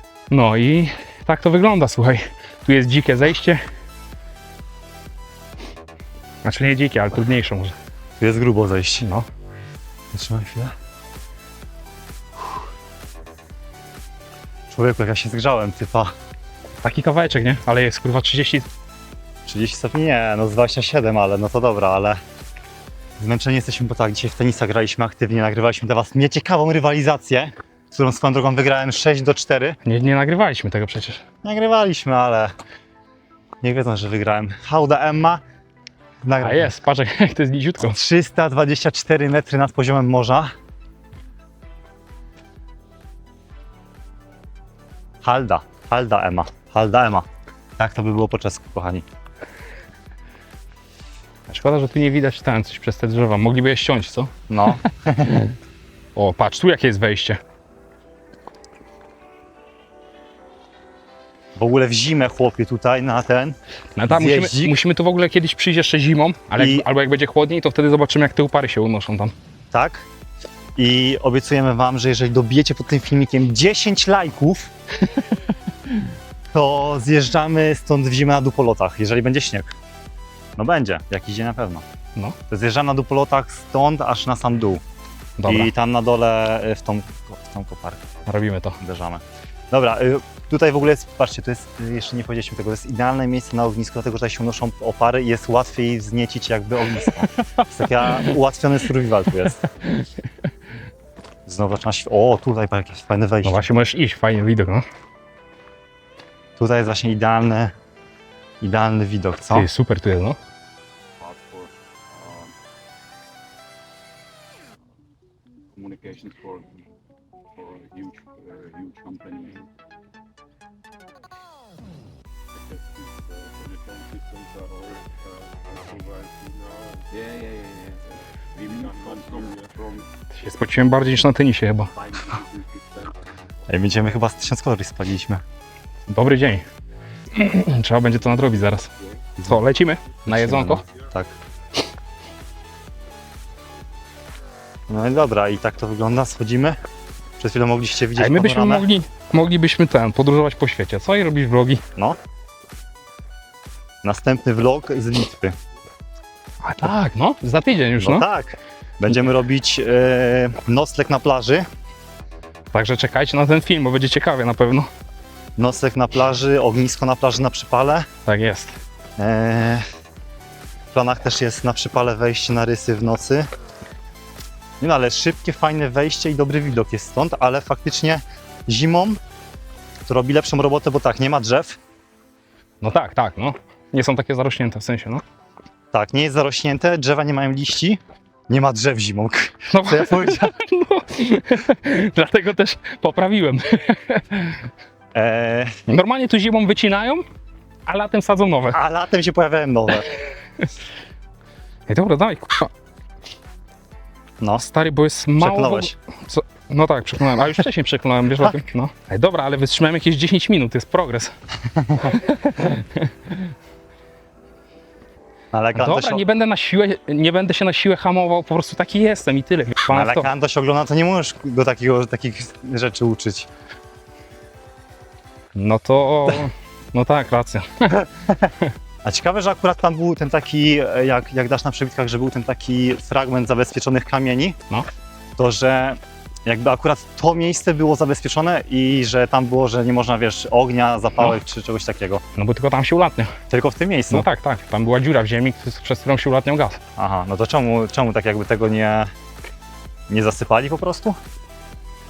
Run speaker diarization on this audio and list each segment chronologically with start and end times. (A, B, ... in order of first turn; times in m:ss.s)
0:00.3-0:03.6 A
0:06.4-0:07.7 A
0:08.2-0:09.0 B
0:10.1-0:10.7 B
0:14.7-0:16.1 B
0:16.8-0:18.7 A
0:19.5-0:22.2 B
0:23.2-0:29.8 B
0:29.8-0:31.2 A
0:31.4-0:32.5 B
0:33.6-0:35.4 B
0:36.2-0:36.7 B
0:36.4-0:38.0 A
0:37.8-0:40.5 B
0:45.2-0:47.2 B
0:47.8-0:49.0 B
0:51.5-0:54.3 A
0:54.5-0:55.5 B
0:56.2-0:57.4 A
1:01.6-1:04.8 B
1:03.9-1:09.3 A
1:06.6-1:06.8 B
1:09.7-1:10.0 B
1:10.8-1:14.7 B
1:16.5-1:19.7 B
1:20.6-1:21.8 B
1:22.5-1:24.8 B
1:25.4-1:25.7 A
1:25.5-1:28.0 B
1:28.2-1:28.8 A
1:28.8-1:39.6 B
1:41.4-1:43.6 B
1:43.4-1:44.8 A
1:46.6-1:47.7 B
1:48.6-1:49.7 B
1:49.5-1:50.4 A
1:51.2-1:51.7 C
1:52.2-1:52.5 C
1:55.8-1:56.7 C
1:57.6-1:59.7 C
2:02.7-2:10.0 C
2:10.3-2:11.9 A
2:13.7-2:15.4 B
2:16.1-2:16.6 A
2:17.3-2:20.8 A
2:20.3-2:21.3 B
2:24.9-2:26.8 B
2:27.4-2:28.9 B
2:28.1-2:31.8 A
2:34.0-2:35.5 B
2:36.6-2:38.2 A
2:38.0-2:41.7 B
2:42.7-2:44.9 A
2:45.6-2:48.1 B
2:48.2-2:48.8 A
2:49.2-2:49.8 B
2:50.9-2:53.5 B
2:54.8-2:59.2 B
3:00.0-3:01.8 B
3:02.8-3:05.2 A
3:05.9-3:10.5 B
3:09.7-3:14.6 A
3:15.1-3:15.7 B
3:15.9-3:17.2 A
3:17.9-3:18.8 A
3:18.7-3:20.1 B
3:21.9-3:22.7 A
3:24.6-3:31.3 A
3:25.4-3:25.9 B
3:31.8-3:32.1 B
3:32.0-3:33.4 A
3:35.5-3:36.2 B
3:35.7-3:40.3 A
3:39.9-3:43.5 B
3:45.5-3:48.0 A
3:49.0-3:54.5 B
3:55.4-4:02.2 B
4:02.3-4:03.3 A
4:03.5-4:04.3 B
4:04.1-4:06.8 A
4:07.0-4:09.1 B
4:10.1-4:11.2 B